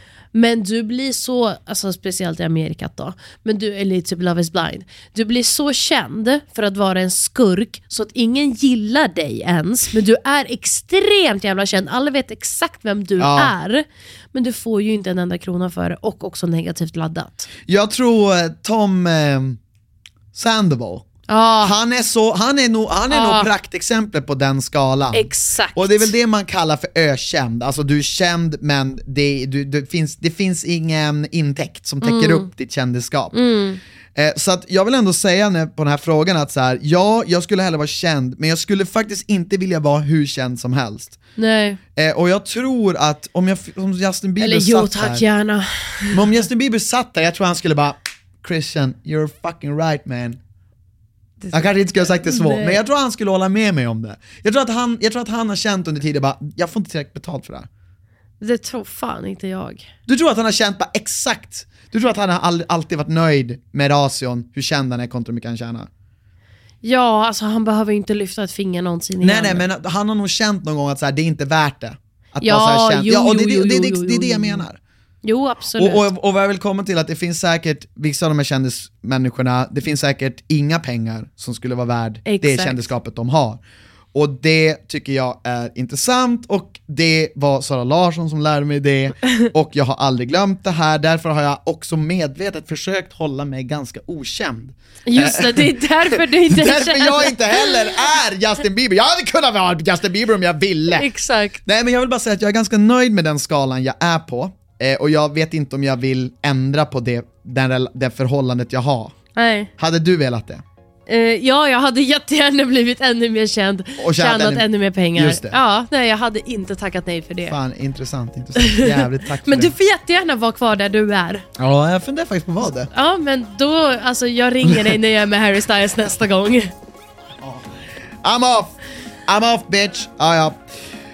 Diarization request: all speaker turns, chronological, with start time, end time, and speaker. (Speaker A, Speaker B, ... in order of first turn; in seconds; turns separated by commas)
Speaker A: 0.3-17.5, Speaker B: 13.2-13.5, Speaker B: 17.7-19.6, Speaker B: 20.3-21.1, Speaker A: 21.3-21.7, Speaker B: 21.6-33.4, Speaker A: 23.1-23.5, Speaker A: 25.1-26.1, Speaker A: 32.0-32.5, Speaker A: 33.3-33.8, Speaker B: 34.1-41.2, Speaker A: 41.4-41.8, Speaker B: 42.0-45.2, Speaker A: 44.4-46.3, Speaker B: 46.1-50.4, Speaker A: 51.4-52.8, Speaker B: 51.5-57.7, Speaker A: 58.4-59.9, Speaker B: 60.1-65.9, Speaker A: 66.8-69.7, Speaker B: 69.2-74.8, Speaker A: 72.4-74.6, Speaker A: 75.2-76.1, Speaker B: 75.8-83.6, Speaker A: 82.3-82.9, Speaker B: 84.1-101.1, Speaker A: 95.1-97.9, Speaker A: 101.0-101.6, Speaker B: 101.7-109.2, Speaker A: 109.4-109.7, Speaker B: 109.8-110.6, Speaker A: 111.1-117.6, Speaker B: 114.0-115.6, Speaker B: 117.5-119.7, Speaker A: 118.6-121.5, Speaker B: 121.6-122.9, Speaker A: 122.9-126.7, Speaker B: 124.7-125.0, Speaker B: 127.4-127.7, Speaker B: 128.2-130.6